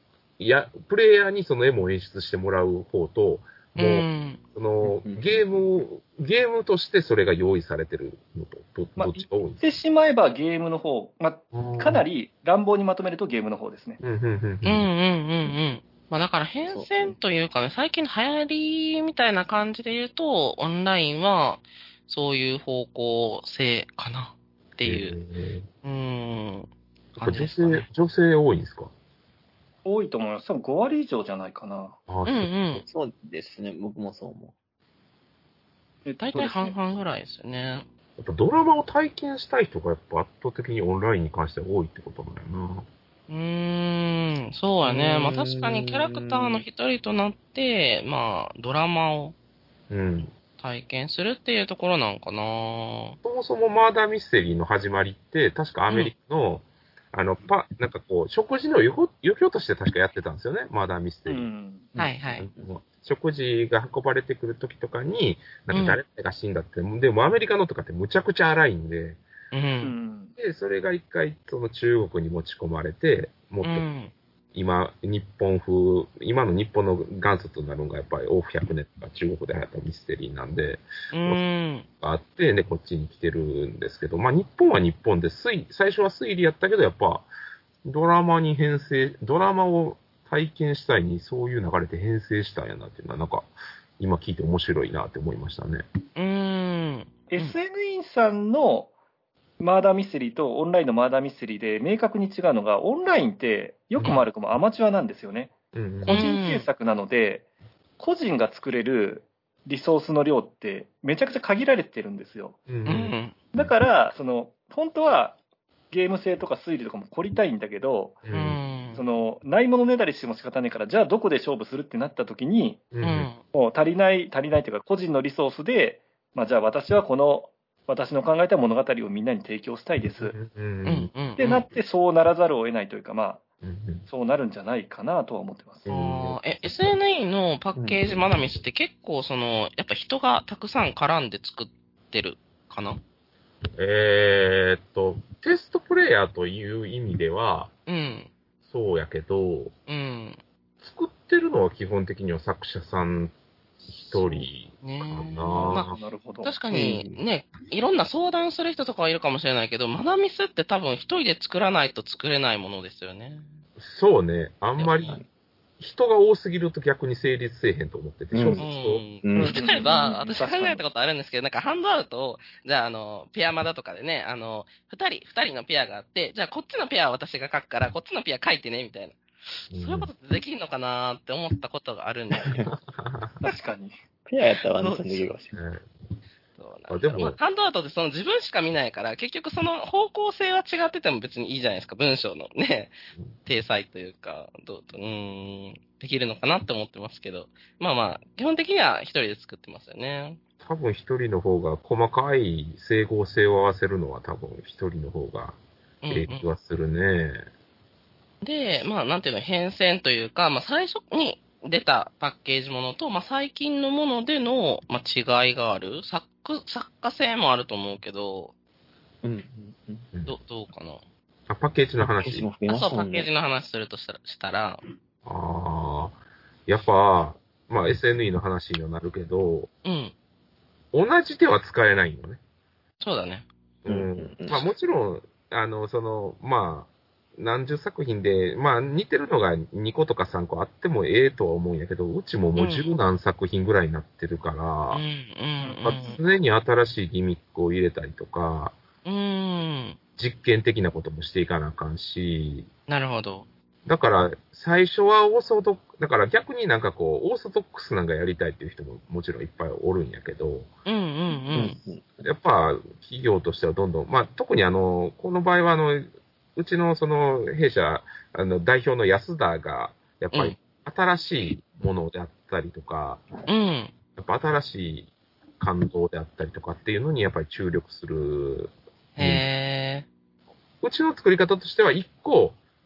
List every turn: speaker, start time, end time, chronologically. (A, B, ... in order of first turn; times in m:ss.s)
0:00.4-0:09.6 A
0:03.8-0:04.4 B
0:04.8-0:05.4 C
0:09.0-0:14.0 D
0:11.5-0:12.0 A
0:14.0-0:14.9 A
0:14.6-0:25.2 B
0:16.7-0:17.2 C
0:24.8-0:25.7 A
0:25.8-0:27.9 B
0:27.2-0:28.9 A
0:29.8-0:32.0 D
0:32.1-0:32.9 A
0:32.2-0:32.8 B
0:32.9-0:34.5 C
0:36.1-0:36.8 D
0:36.2-0:37.9 B
0:38.2-0:42.9 A
0:43.3-0:49.3 B
0:44.9-0:45.5 A
0:49.9-0:50.3 A
0:50.6-0:53.2 B
0:53.2-1:01.5 A
1:01.3-1:01.9 D
1:02.0-1:02.5 B
1:02.4-1:09.2 A
1:05.7-1:06.0 B
1:09.5-1:09.9 B
1:09.8-1:10.3 D
1:10.4-1:13.9 A
1:13.6-1:14.1 B
1:14.5-1:21.4 A
1:21.1-1:21.9 B
1:22.0-1:27.3 A
1:27.8-1:35.8 A
1:36.2-1:37.6 B
1:37.3-1:38.9 D
1:39.6-1:47.5 D
1:44.0-1:44.2 A
1:45.7-1:46.2 A
1:46.1-1:46.7 B
1:48.0-1:52.6 D
1:52.7-1:53.7 A
1:52.9-1:53.4 B
1:53.5-1:55.4 D
1:55.9-1:58.2 D
1:58.2-1:58.6 A
1:58.3-1:59.0 B
1:58.9-2:02.8 D
2:02.9-2:03.3 A
2:03.0-2:03.4 B
2:03.5-2:10.4 D
2:10.2-2:11.1 A
2:10.8-2:11.6 B
2:11.4-2:13.4 D
2:13.6-2:14.1 A
2:14.1-2:15.9 D
2:15.8-2:17.0 A
2:15.9-2:23.0 B
2:23.8-2:27.7 A
2:27.9-2:28.3 B
2:28.7-2:29.7 A
2:29.9-2:30.4 B
2:30.8-2:33.4 A
2:33.9-2:36.0 A
2:34.8-2:43.5 B
2:35.6-2:36.6 D
2:36.7-2:37.2 C
2:43.8-2:45.2 A
2:44.8-2:45.2 B
2:45.8-2:49.0 A
2:48.3-2:48.6 C
2:48.6-3:02.6 B
2:49.2-2:49.9 C
2:49.4-2:50.8 D
2:59.7-3:00.1 A
3:02.4-3:02.7 C
3:02.6-3:03.3 A
3:03.4-3:04.0 D
3:04.3-3:05.6 C
3:04.8-3:05.3 B
3:05.5-3:05.9 A
3:06.6-3:20.4 B
3:06.9-3:07.4 A
3:20.6-3:25.6 A
3:26.0-3:26.5 B
3:26.1-3:27.5 A
3:28.4-3:38.5 B
3:39.2-3:40.0 C
3:40.3-3:41.0 B
3:41.5-3:42.5 A
3:42.2-3:43.3 C
3:42.7-3:44.8 B
3:45.2-3:49.7 A
3:49.8-3:50.1 B
3:50.9-3:52.4 A
3:53.0-3:53.5 B
3:53.8-4:05.0 A
3:53.9-3:54.7 C
4:02.6-4:03.0 B
4:04.9-4:06.2 B
4:05.6-4:06.2 D
4:05.8-4:08.8 A
4:09.0-4:10.0 B
4:10.2-4:12.7 A
4:12.9-4:13.5 B
4:13.9-4:20.7 A
4:20.9-4:21.8 B
4:21.5-4:22.1 C
4:22.2-4:33.3 A
4:30.3-4:30.6 B
4:33.5-4:33.9 B
4:34.2-4:39.5 A
4:39.2-4:40.1 B
4:40.8-4:42.6 A